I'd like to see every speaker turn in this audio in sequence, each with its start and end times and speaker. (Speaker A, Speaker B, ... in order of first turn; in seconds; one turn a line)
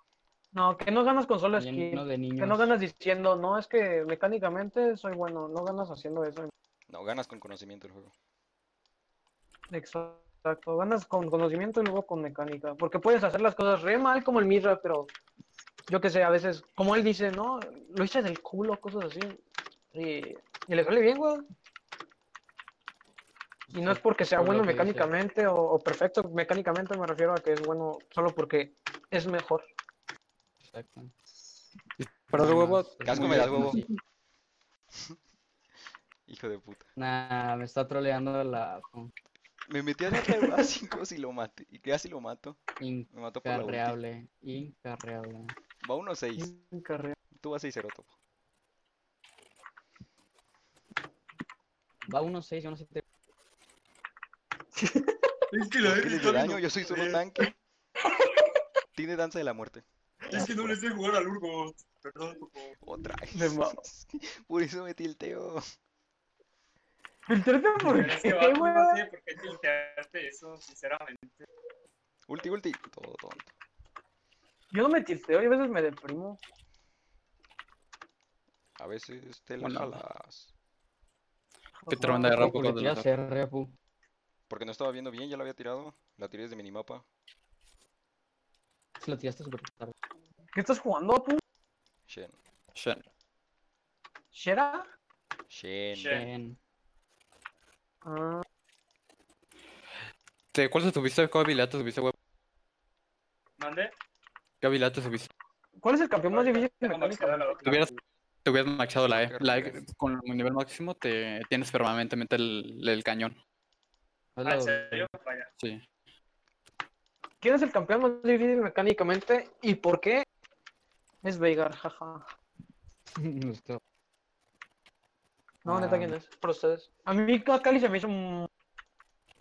Speaker A: 0.5-6.5
Speaker B: 1.6-2.7
Speaker C: 6.9-8.1
Speaker A: 9.7-15.1
Speaker A: 15.9-19.4
Speaker A: 19.9-21.4
Speaker B: 23.7-25.1
Speaker A: 23.7-29.6
Speaker B: 30.6-31.1
Speaker D: 32.0-33.8
Speaker B: 32.3-33.9
Speaker C: 33.0-33.8
Speaker C: 36.3-36.9
Speaker B: 37.0-39.1
Speaker C: 39.7-42.6
Speaker A: 40.1-40.4
Speaker B: 42.8-45.5
Speaker C: 43.1-44.0
Speaker C: 45.8-46.5
Speaker A: 46.4-47.2
Speaker C: 47.3-48.1
Speaker B: 52.0-53.0
Speaker A: 54.8-55.1
Speaker E: 55.5-57.2
Speaker C: 55.8-57.5
Speaker C: 58.9-60.8
Speaker E: 60.3-62.8
Speaker C: 62.8-65.6
Speaker A: 63.3-63.8
Speaker A: 67.3-69.0
Speaker E: 67.8-71.4
Speaker C: 72.3-73.5
Speaker A: 74.7-76.4
Speaker C: 78.8-80.5
Speaker D: 79.6-80.0
Speaker A: 81.8-82.5
Speaker D: 81.9-83.0
Speaker B: 82.0-83.7
Speaker C: 84.5-87.0
Speaker B: 89.0-89.9
Speaker A: 90.5-91.4
Speaker C: 92.1-92.3
Speaker D: 92.7-93.0
Speaker A: 94.3-94.9
Speaker C: 95.5-96.2
Speaker E: 95.9-96.2
Speaker B: 96.1-96.6
Speaker A: 98.0-98.4
Speaker D: 100.5-102.1
Speaker E: 103.6-103.9
Speaker D: 104.6-105.3
Speaker A: 105.8-107.6
Speaker E: 106.3-108.0
Speaker D: 107.6-107.9
Speaker D: 108.4-113.4
Speaker C: 109.1-109.8
Speaker B: 114.3-115.1
Speaker E: 114.4-115.5
Speaker D: 115.6-115.8
Speaker A: 117.4-120.2
Speaker A: 121.2-122.2
Speaker B: 123.2-123.8
Speaker A: 125.6-128.5
Speaker B: 125.7-126.1